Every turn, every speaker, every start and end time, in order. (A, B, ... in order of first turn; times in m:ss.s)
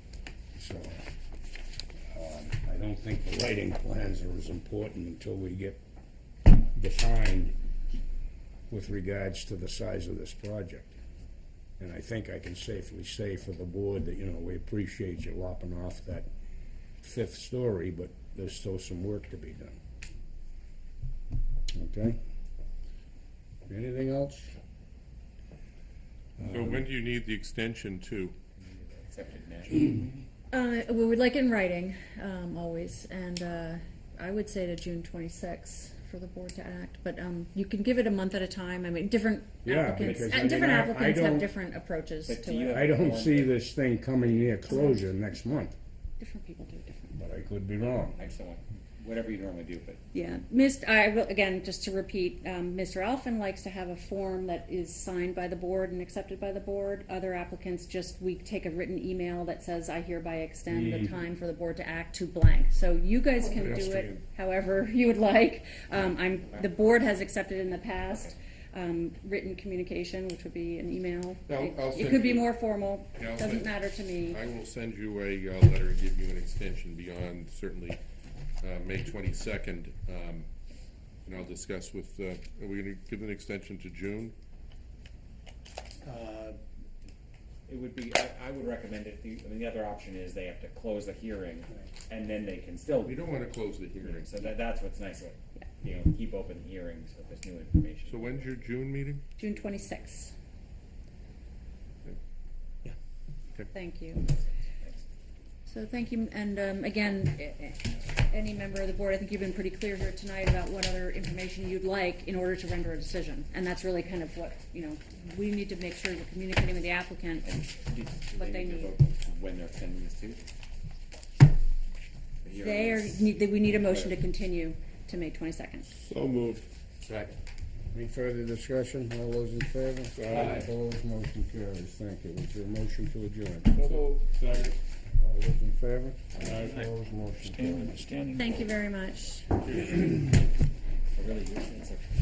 0:00.5-0:01.0 A
0:02.1-0:05.8 A
0:06.7-0:07.6 A
0:08.7-0:11.0 A
0:11.8-0:16.3 A
0:17.0-0:19.8 A
0:21.7-0:22.2 A
0:23.7-0:24.5 A
0:26.4-0:26.8 A
0:26.4-0:28.3 B
0:28.6-0:30.1 C
0:30.5-0:42.8 D
0:39.6-0:41.5 A
0:40.0-0:40.8 C
0:42.3-0:43.6 C
0:42.7-0:45.7 A
0:46.2-0:47.2 D
0:47.1-0:48.2 A
0:48.2-0:50.0 C
0:50.1-1:14.4 D
1:00.7-1:01.1 A
1:03.6-1:04.2 A
1:03.6-1:03.9 B
1:08.1-1:08.4 C
1:11.5-1:12.5 B
1:13.2-1:18.0 B
1:18.6-1:20.5 B
1:21.2-1:24.3 B
1:26.0-1:26.5 C
1:27.7-1:33.2 C
1:33.0-1:34.3 B
1:34.0-1:38.5 C
1:38.1-1:39.2 B
1:39.4-1:40.3 D
1:43.7-1:44.2 D
1:44.2-1:45.0 C
1:45.7-1:57.5 D
1:57.4-2:00.4 C
1:58.3-1:58.9 D
2:02.4-2:03.3 C
2:02.6-2:05.9 D
2:03.8-2:04.1 C
2:06.0-2:07.3 B
2:07.9-2:14.1 A
2:10.2-2:10.6 B
2:13.7-2:14.7 B
2:15.2-2:18.0 A
2:17.4-2:18.7 C
2:18.3-2:19.5 D
2:19.7-2:20.0 B
2:21.1-2:22.1 C